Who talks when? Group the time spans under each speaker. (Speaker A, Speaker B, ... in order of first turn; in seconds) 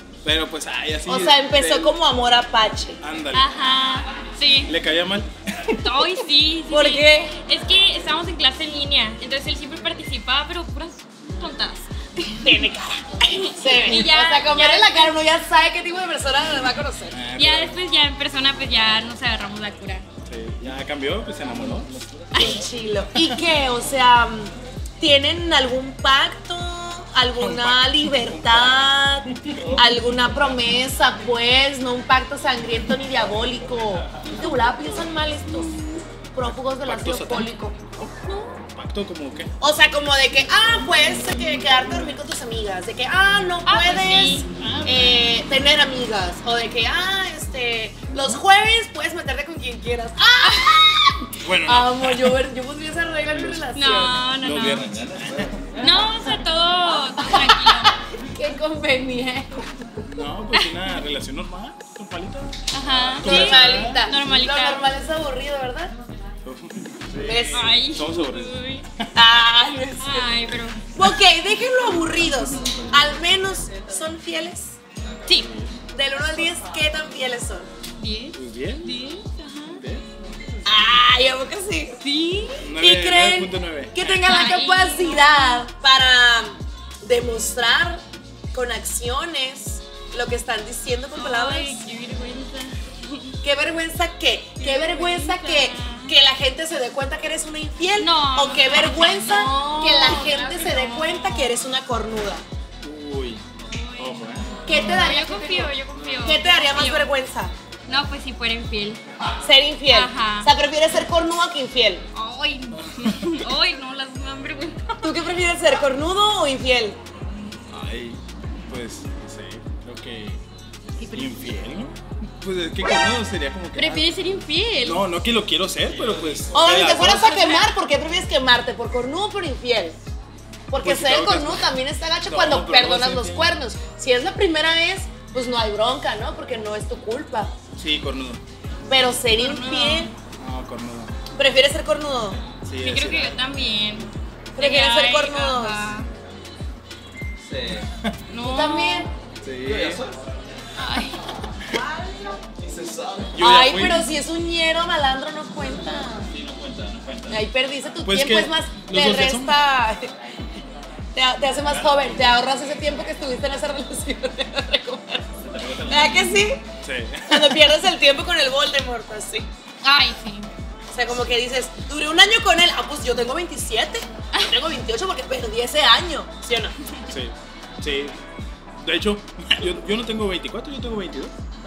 Speaker A: 0.2-1.9, 3.0-3.5, 4.7-5.8, 17.1-17.8, 20.3-22.6, 27.4-28.9, 29.4-29.9, 36.4-38.1, 38.8-39.5, 44.6-45.2, 51.4-52.4, 53.3-55.7, 60.1-64.2, 66.5-69.1, 72.4-72.9, 75.4-75.7, 78.3-78.9, 79.8-80.0, 82.6-84.0, 102.8-103.4, 104.0-104.5, 112.8-113.3, 117.7-120.4, 121.1-124.1, 124.8-127.5, 130.8-131.7, 132.3-133.6, 137.8-138.4, 140.4-141.1, 142.6-143.4, 149.4-150.1, 152.7-154.1, 156.5-157.2, 158.1-159.6, 161.7-162.2, 165.6-166.2, 166.8-167.7, 177.1-178.2, 178.8-181.3
Speaker B: 1.1-3.0, 6.7-7.3, 12.4-17.2, 22.4-35.8, 36.3-37.8, 39.6-54.1, 56.9-59.5, 63.2-66.0, 67.2-67.7, 69.2-70.3, 71.0-74.8, 75.9-77.7, 80.7-82.0, 82.8-88.0, 88.5-91.8, 93.4-102.4, 104.7-107.5, 109.4-112.0, 115.0-117.0, 126.5-130.0, 130.7-137.6, 138.9-140.1, 141.3-142.4, 144.6-145.9, 148.4-149.1, 151.9-152.4, 153.4-156.3, 157.3-160.1, 161.2-165.3, 165.8-166.6, 167.3-169.5, 170.9-176.7
Speaker C: 3.3-4.7, 5.8-12.6, 13.3-15.2, 17.4-20.1, 22.3-22.6, 38.2-38.6, 43.6-44.5, 50.4-50.8, 53.8-54.9, 55.8-57.9, 62.7-64.8, 67.5-68.8, 70.0-70.8, 78.0-79.8, 82.0-82.6, 84.0-85.7, 91.1-93.3, 94.6-96.2, 98.0-101.5, 103.6-107.1, 107.9-109.0, 109.9-110.5, 112.2-115.2, 121.0-121.3, 123.8-125.0, 127.0-127.7, 139.3-140.1, 142.8-146.1, 148.3-149.1, 150.8-151.2, 169.8-170.5